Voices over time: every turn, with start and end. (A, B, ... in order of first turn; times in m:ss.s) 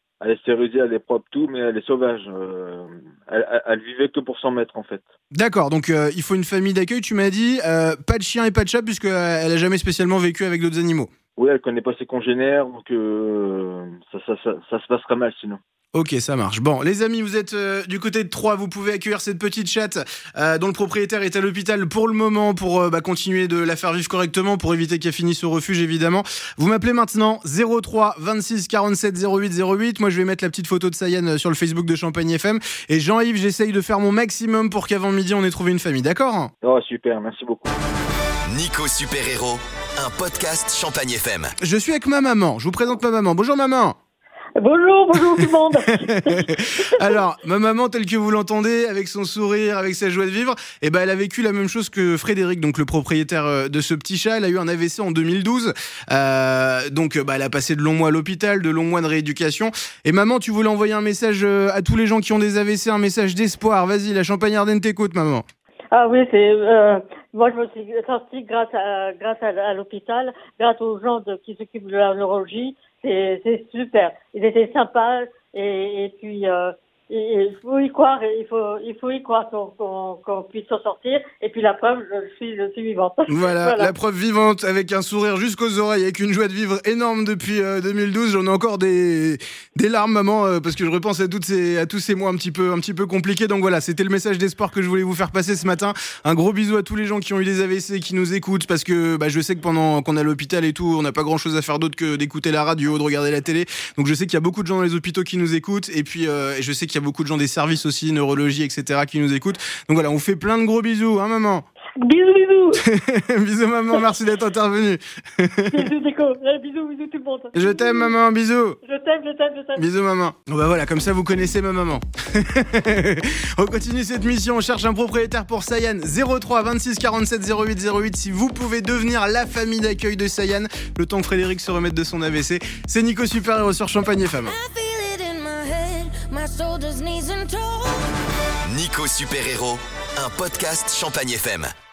0:00.3-0:05.0 A
0:05.3-0:11.1 B
0:11.4-0:13.3 A
0:14.2-0:15.6 A
0:15.9-0:36.5 B
0:36.6-0:37.7 A
0:38.5-0:41.5 C
0:41.6-0:44.0 B
0:44.6-0:47.2 D
0:46.3-1:05.4 B
1:05.9-1:23.9 D
1:23.3-1:51.7 B
1:52.0-1:52.8 D
1:52.7-1:55.9 B
1:55.7-1:58.2 D
1:57.5-1:58.8 B
1:58.8-1:59.8 D
1:59.8-2:14.6 B
2:14.4-2:18.1 E
2:18.7-2:21.7 C